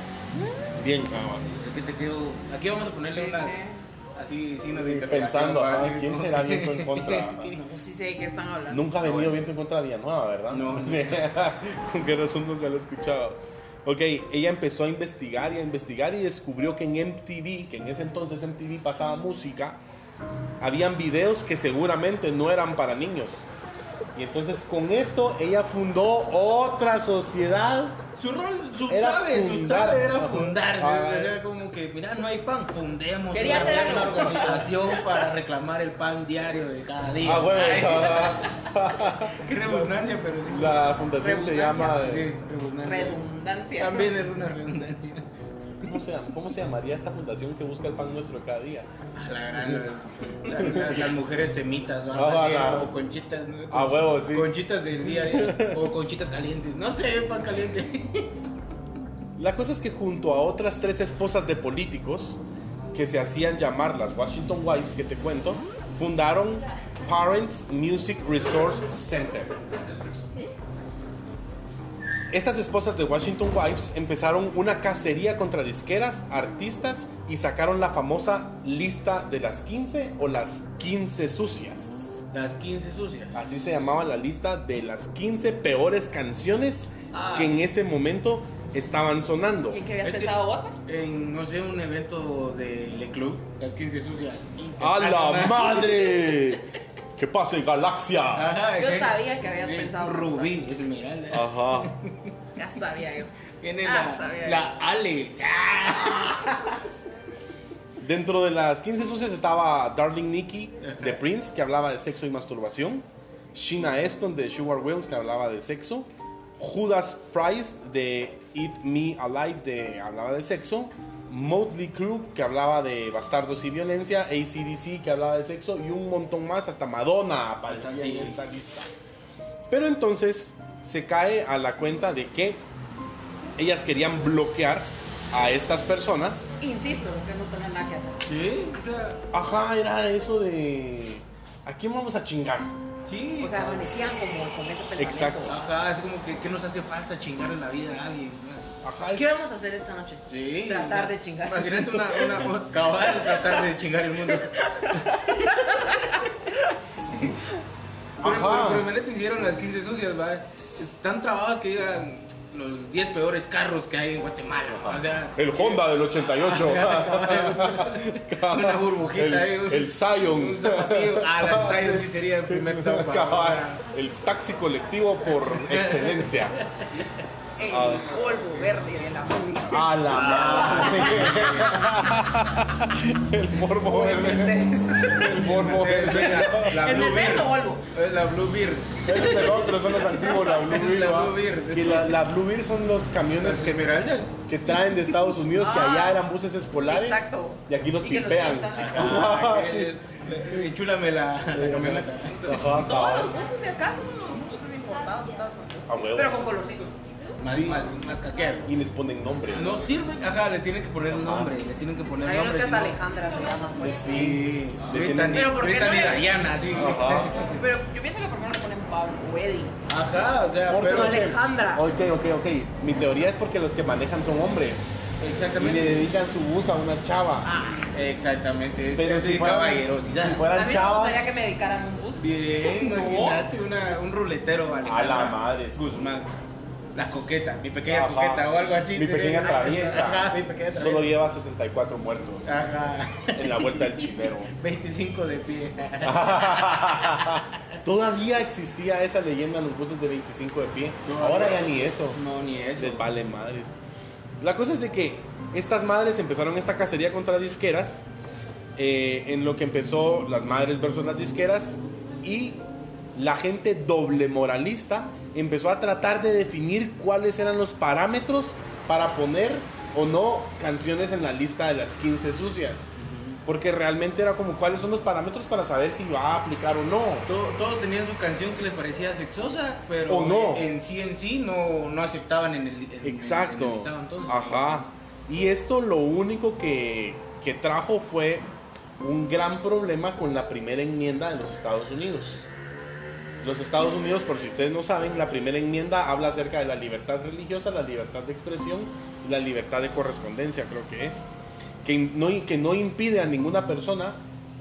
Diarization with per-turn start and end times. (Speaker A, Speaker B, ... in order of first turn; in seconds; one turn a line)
Speaker A: 0.7-1.5
Speaker B: 1.4-7.6
Speaker C: 3.1-3.8
Speaker A: 4.7-7.5
Speaker C: 7.5-8.9
Speaker A: 8.7-19.8
Speaker B: 9.0-9.4
Speaker B: 10.5-11.3
Speaker A: 20.6-23.5
Speaker A: 24.1-28.0
Speaker B: 28.1-38.6
Speaker A: 28.9-31.4
Speaker C: 33.3-35.0
Speaker A: 37.2-42.3
Speaker B: 39.3-41.0
Speaker C: 41.2-42.1
Speaker B: 42.0-43.2
Speaker C: 42.8-44.1
Speaker B: 43.8-45.2
Speaker A: 45.8-48.9
Speaker B: 49.1-58.3
Speaker A: 50.5-51.1
Speaker A: 52.1-52.9
Speaker A: 53.7-55.8
Speaker A: 59.4-62.4
Speaker A: 62.9-69.6
Speaker A: 72.3-82.2
Speaker B: 82.3-83.4
Speaker A: 83.3-89.8
Speaker B: 87.1-87.6
Speaker C: 89.7-90.8
Speaker B: 90.0-96.4
Speaker A: 94.8-98.5
Speaker B: 98.3-102.3
Speaker C: 98.7-100.5
Speaker A: 101.3-101.9
Speaker C: 102.5-103.3
Speaker B: 103.6-106.6
Speaker C: 103.8-104.7
Speaker C: 106.0-106.5
Speaker A: 108.0-128.9
Speaker B: 110.8-111.2
Speaker B: 127.7-128.4
Speaker A: 129.7-132.6
Speaker A: 133.6-136.6
Speaker C: 136.6-138.2
Speaker B: 138.2-139.2
Speaker A: 139.3-142.8
Speaker B: 143.0-143.8
Speaker C: 143.4-145.6
Speaker A: 145.0-145.5
Speaker B: 145.4-148.8
Speaker A: 148.8-149.4
Speaker C: 149.1-152.5
Speaker B: 150.3-156.1
Speaker C: 153.2-153.6
Speaker C: 154.4-156.2
Speaker B: 157.1-157.4
Speaker A: 158.2-158.9
Speaker B: 158.2-173.8
Speaker A: 164.7-176.6
Speaker B: 175.5-177.2
Speaker C: 177.6-181.6
Speaker A: 177.6-178.2
Speaker A: 179.7-186.8
Speaker B: 180.1-181.8
Speaker C: 183.8-185.4
Speaker B: 185.2-192.2
Speaker C: 186.6-187.9
Speaker A: 189.0-193.9
Speaker B: 193.4-194.3
Speaker A: 194.5-199.9
Speaker C: 195.6-196.2
Speaker C: 196.9-199.3
Speaker B: 198.7-202.8
Speaker A: 201.5-203.4
Speaker C: 202.8-207.0
Speaker A: 205.9-206.5
Speaker B: 207.4-208.7
Speaker A: 207.4-207.9
Speaker A: 208.6-209.8
Speaker B: 209.5-213.0
Speaker A: 211.1-211.5
Speaker C: 212.2-214.2
Speaker A: 213.8-215.6
Speaker B: 214.1-217.6
Speaker C: 215.3-216.3
Speaker A: 216.7-217.4
Speaker C: 217.4-219.8
Speaker B: 219.9-221.3
Speaker A: 220.7-225.0
Speaker C: 220.9-221.9
Speaker B: 225.2-226.1
Speaker A: 225.5-227.5
Speaker C: 227.4-227.9
Speaker B: 227.9-230.4
Speaker A: 228.9-231.3
Speaker C: 230.5-233.4
Speaker B: 232.2-236.3
Speaker A: 234.8-236.0
Speaker B: 236.9-241.1
Speaker A: 237.8-242.5
Speaker B: 242.4-247.5
Speaker A: 243.3-244.5
Speaker A: 246.0-252.2
Speaker B: 251.0-253.1
Speaker A: 252.8-253.8
Speaker A: 254.4-258.0
Speaker A: 258.8-262.6
Speaker A: 263.1-272.9
Speaker B: 272.9-273.4
Speaker A: 273.4-277.3
Speaker B: 277.2-284.9
Speaker A: 280.1-280.7
Speaker A: 283.0-288.5
Speaker A: 289.0-292.5
Speaker A: 293.4-301.3
Speaker A: 301.8-304.2